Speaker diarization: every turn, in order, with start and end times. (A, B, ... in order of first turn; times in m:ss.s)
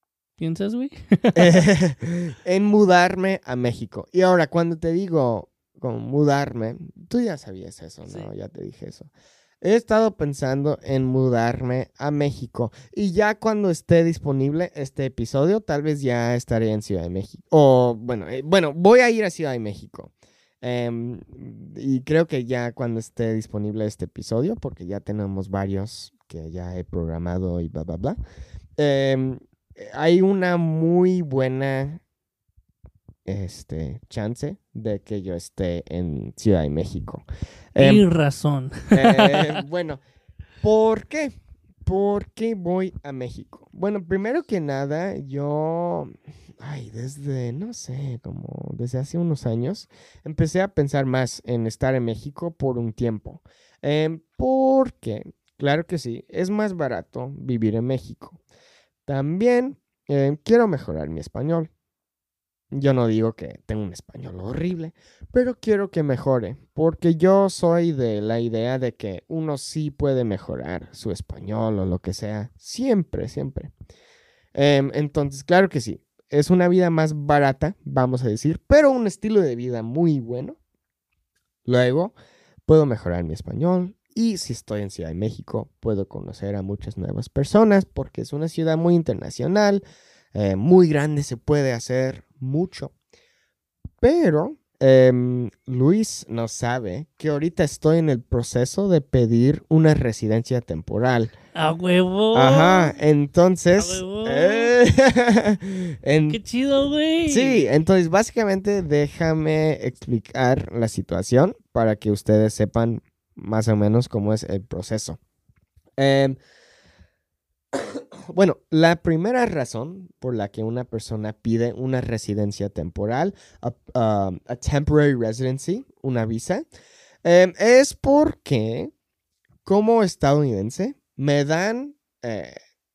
0:00.4-0:01.6 A
0:01.3-0:09.1 B
0:09.6-0:28.2 B
0:28.8-0:32.0 B
0:33.2-0:38.0 B
0:37.8-0:39.6 A
0:38.9-0:40.0 B
0:40.6-0:41.3 B
0:41.8-0:58.4 B
0:59.0-1:01.7 B
1:02.7-1:13.7 B
1:14.5-1:20.6 B
1:21.6-1:22.1 B
1:22.6-1:29.8 B
1:30.3-1:32.9 B
1:34.0-1:41.3 B
1:41.5-1:43.0 A
1:42.3-1:46.4 B
1:43.7-1:44.7 A
1:46.3-1:47.6 A
1:47.3-1:55.2 B
1:56.0-1:56.4 B
1:57.7-2:06.6 B
2:07.2-2:08.9 B
2:09.6-2:12.5 B